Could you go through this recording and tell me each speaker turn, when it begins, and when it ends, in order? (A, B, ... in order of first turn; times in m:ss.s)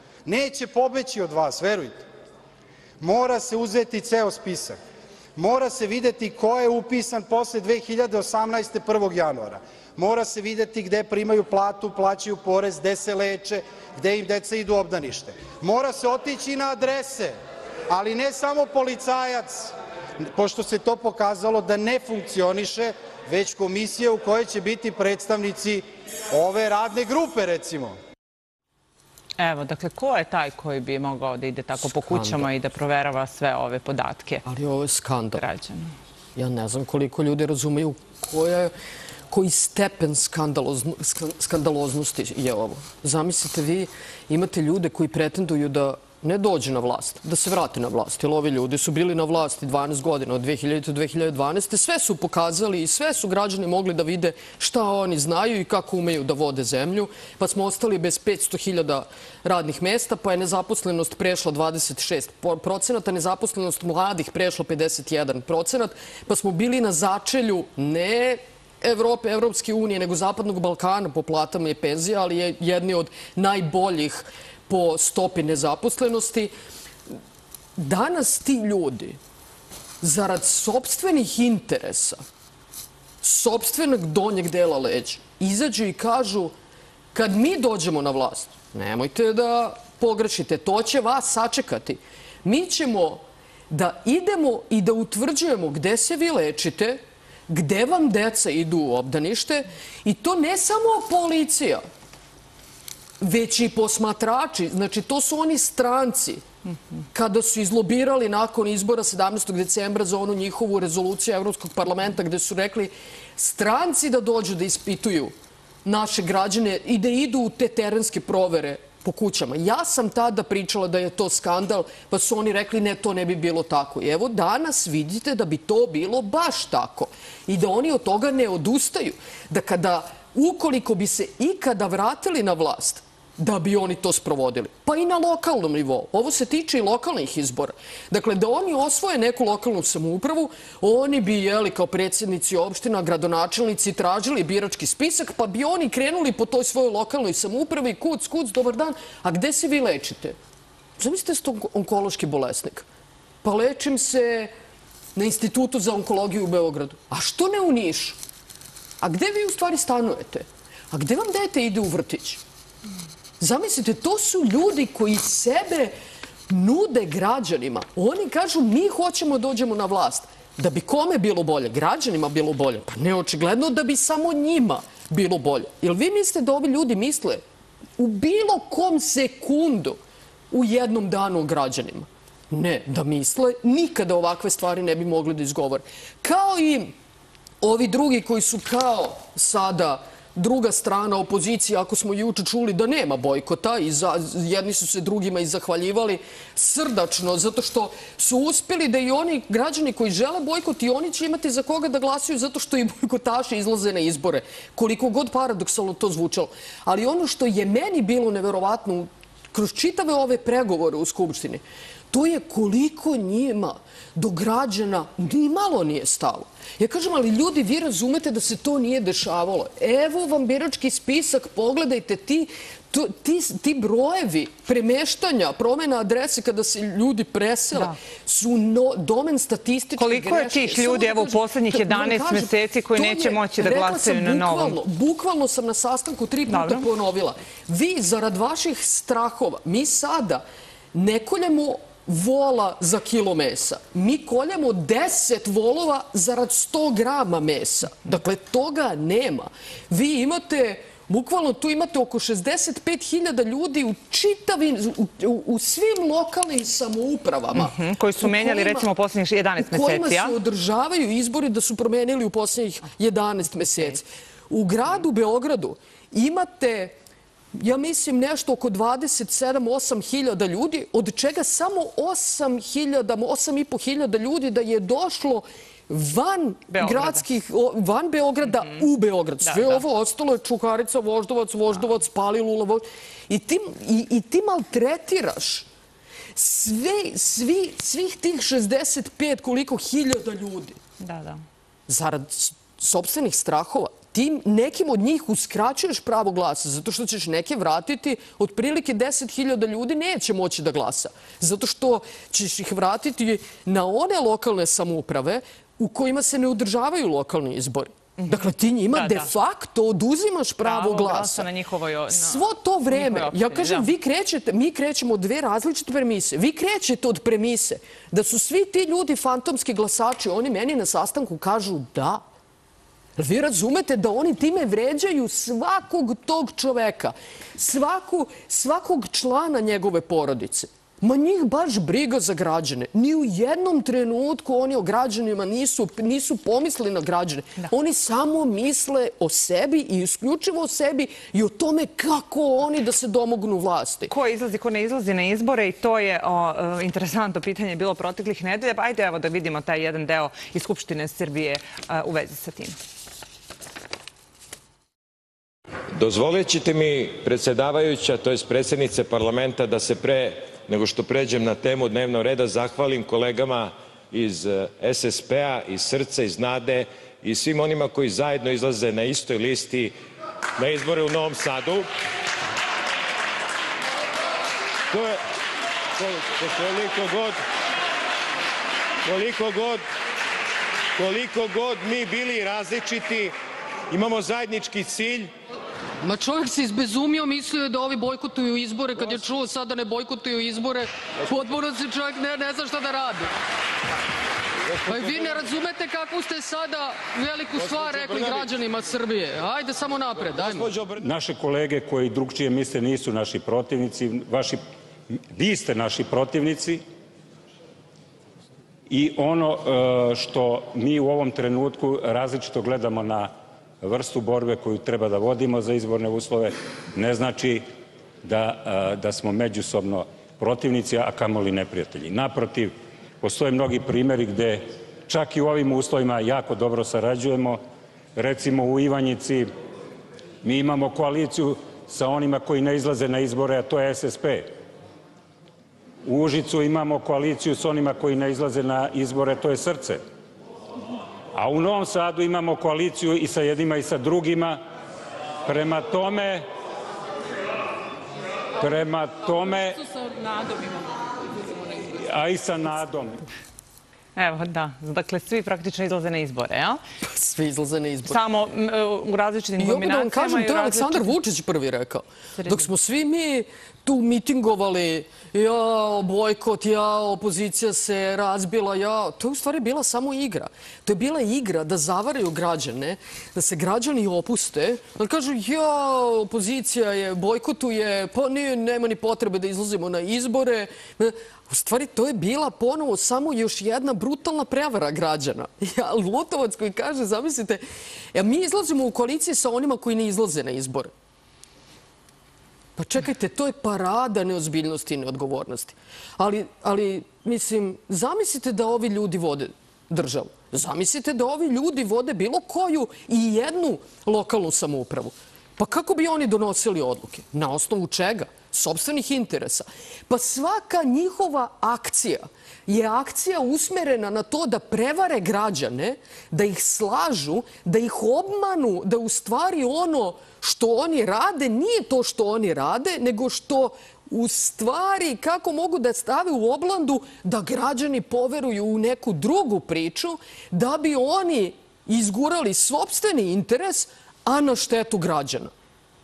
0:00.2-0:02.0 A
0:03.0-0:04.8 A
0:05.4-0:17.3 A
0:17.9-0:19.7 A
0:20.2-0:28.0 A
0:29.4-0:34.4 B
0:31.8-0:32.5 C
0:34.4-0:35.4 C
0:35.4-0:35.9 B
0:36.4-0:38.7 C
0:39.3-1:16.5 C
1:17.8-1:19.2 C
1:20.0-1:22.2 C
1:23.2-1:26.5 C
1:27.1-1:41.8 C
1:43.2-1:46.4 C
1:47.1-2:30.4 C
2:31.0-2:32.8 C
2:33.4-2:34.5 C
2:35.1-2:38.2 C
2:39.0-2:42.4 C
2:43.4-2:45.9 C
2:46.5-2:57.4 C
2:58.0-3:00.0 C
3:00.5-3:06.9 C
3:07.6-4:00.4 C
3:50.0-3:54.8 B
3:56.5-3:56.8 B
4:00.9-4:18.9 C
4:17.5-4:20.4 B
4:19.6-4:26.9 C
4:27.5-4:45.6 C
4:36.7-4:37.2 B
4:39.5-4:39.8 B
4:46.3-4:50.8 C
4:51.0-4:51.4 B
4:51.9-5:11.4 C
5:08.9-5:09.3 B
5:10.6-5:13.9 B
5:12.1-5:22.2 C
5:23.2-5:44.1 C
5:44.1-5:52.8 B
5:55.9-6:09.9 D
6:10.6-6:11.9 D
6:14.9-6:15.2 D
6:16.0-6:17.4 D
6:19.0-6:19.8 D
6:21.0-6:23.3 D
6:23.9-6:25.3 D
6:26.0-6:33.3 C
6:34.7-6:35.2 D
6:34.8-6:40.7 C
6:37.6-6:38.4 D
6:40.4-6:41.0 D
6:41.0-6:44.6 E
6:45.3-6:46.8 E
6:48.9-6:57.6 E
6:58.2-7:07.6 E
7:08.2-7:09.5 E
7:10.4-7:14.5 E
7:16.0-7:20.0 E
7:21.3-7:24.6 E
7:25.4-7:26.4 E
7:28.6-7:30.0 E
7:31.8-7:33.2 E
7:34.2-7:36.8 B
7:37.0-7:38.2 C
7:38.1-7:41.1 B
7:39.6-8:07.6 C
8:08.1-8:10.9 C
8:12.8-8:55.5 C